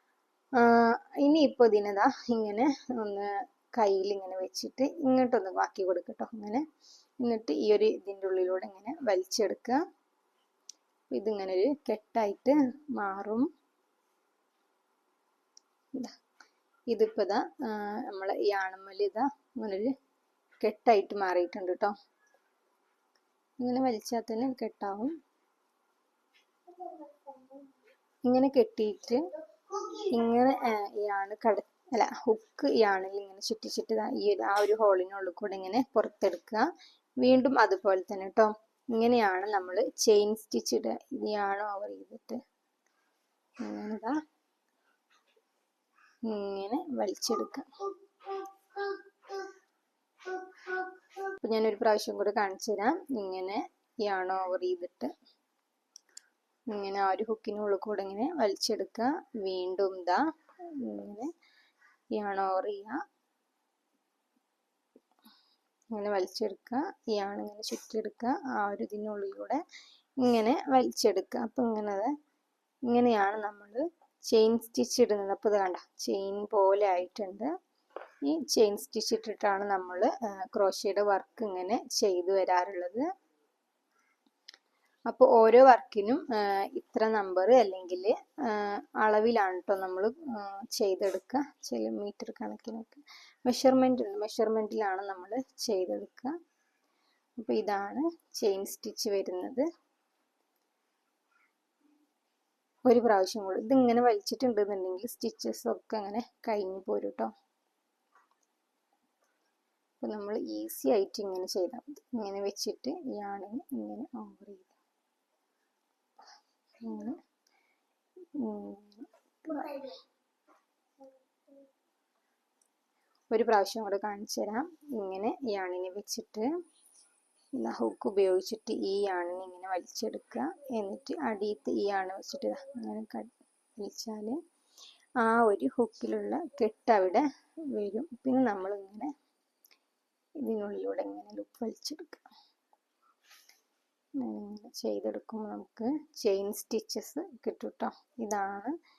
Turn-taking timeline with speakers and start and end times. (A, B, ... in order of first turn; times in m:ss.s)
0:00.6-0:06.6 A
0:07.2-0:09.8 A
0:11.1-0:13.5 A
0:16.9-0:19.9 A
0:20.6-0:21.9 A
0:23.6-0:25.1 A
0:28.2-0:36.7 A
0:37.2-0:42.4 A
0:43.6-0:44.2 A
0:46.2-0:49.0 A
0:50.6-0:55.1 A
0:56.7-1:01.3 A
1:02.1-1:03.0 A
1:05.9-1:09.6 A
1:10.2-1:12.1 A
1:12.9-1:17.5 A
1:18.2-1:23.1 A
1:25.1-1:36.4 A
1:37.4-1:39.7 A
1:42.8-1:47.3 A
1:50.0-1:54.7 A
1:56.8-1:57.2 A
1:58.3-2:00.0 A
2:03.3-2:06.5 A
2:07.5-2:14.4 A
2:15.2-2:19.1 A
2:20.4-2:22.2 A
2:24.2-2:28.7 A